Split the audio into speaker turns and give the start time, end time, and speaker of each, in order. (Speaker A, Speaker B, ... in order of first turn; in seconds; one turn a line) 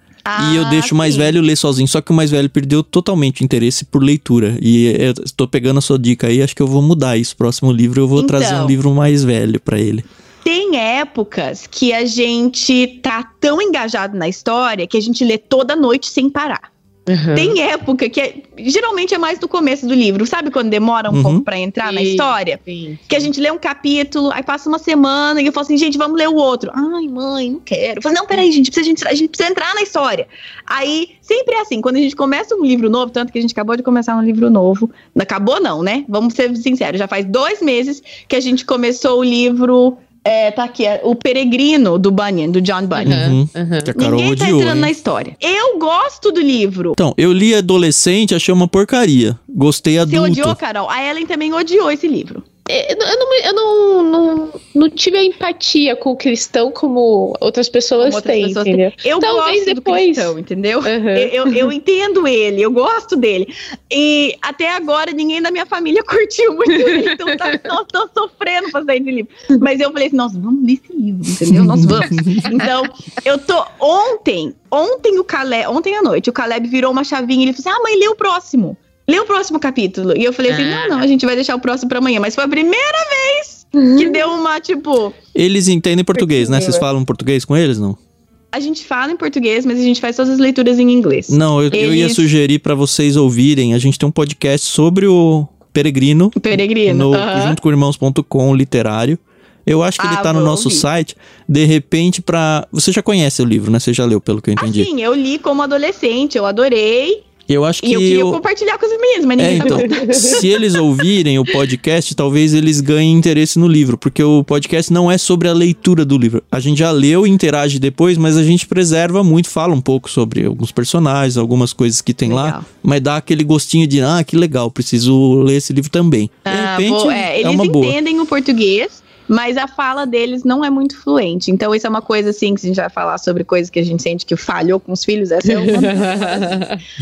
Speaker A: 0.2-1.4
Speaker B: 0.4-10.1
Speaker A: 8.2-8.8
Speaker A: 10.4-16.7
Speaker C: 17.1-17.6
Speaker A: 17.3-43.2
Speaker B: 21.1-21.4
Speaker C: 21.8-23.3
Speaker C: 42.9-43.9
Speaker B: 43.0-44.9
Speaker A: 44.0-47.0
Speaker B: 47.0-50.6
Speaker A: 50.0-52.5
Speaker C: 52.7-61.7
Speaker A: 58.0-85.1
Speaker C: 66.8-67.5
Speaker B: 71.5-72.4
Speaker C: 80.5-81.0
Speaker C: 83.8-84.2
Speaker B: 85.3-88.0
Speaker A: 86.4-86.8
Speaker A: 88.5-92.3
Speaker B: 91.3-104.9
Speaker A: 96.4-97.6
Speaker A: 100.0-100.8
Speaker A: 104.6-107.2
Speaker B: 107.5-108.4
Speaker A: 107.8-110.5
Speaker B: 109.4-128.0
Speaker C: 109.6-110.4
Speaker A: 122.2-122.7
Speaker A: 126.5-136.6
Speaker C: 135.4-136.8